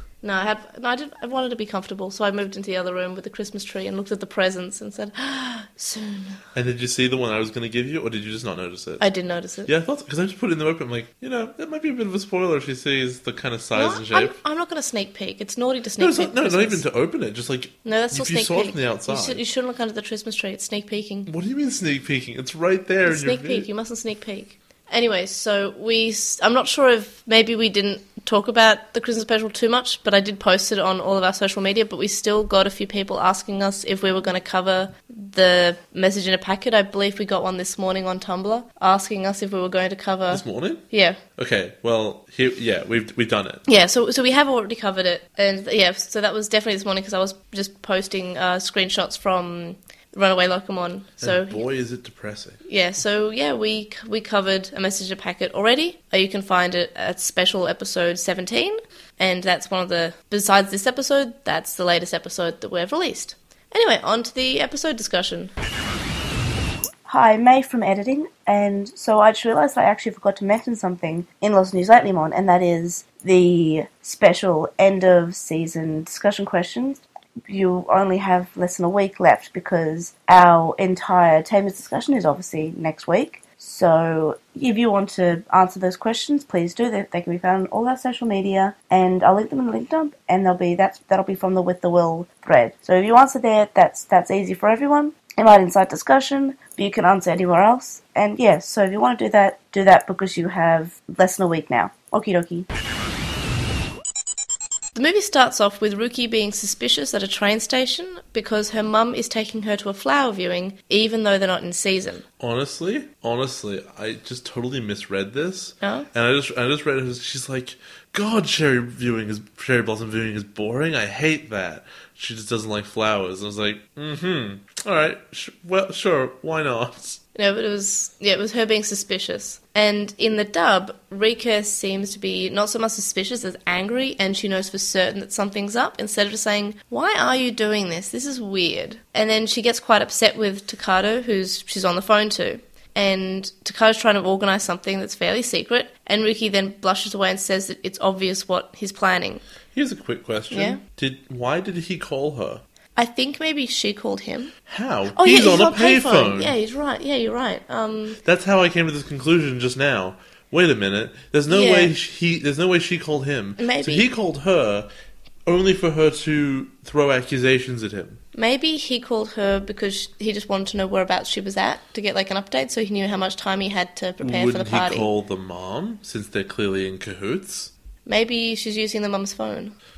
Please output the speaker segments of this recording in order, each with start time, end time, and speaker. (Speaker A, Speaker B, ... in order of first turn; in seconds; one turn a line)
Speaker A: 0.2-6.4
Speaker B: 6.5-9.0
Speaker A: 9.0-9.7
Speaker B: 9.6-14.3
Speaker A: 13.7-16.8
Speaker B: 16.0-19.4
Speaker A: 17.8-21.3
Speaker B: 21.3-23.7
Speaker A: 23.0-41.2
Speaker B: 40.3-40.8
Speaker B: 41.4-43.6
Speaker A: 43.7-51.6
Speaker B: 51.2-52.6
Speaker A: 52.6-65.5
Speaker C: 67.0-102.7
Speaker A: 104.9-112.2
Speaker B: 112.4-127.2
Speaker A: 127.3-149.4
Speaker B: 149.7-152.6
Speaker A: 150.5-150.8
Speaker A: 152.9-154.5
Speaker B: 154.7-156.5
Speaker A: 155.1-158.2
Speaker B: 158.2-164.9
Speaker A: 161.5-161.9
Speaker A: 163.6-164.0
Speaker B: 165.4-168.2
Speaker A: 168.3-175.1
Speaker B: 174.2-177.7
Speaker A: 178.1-179.7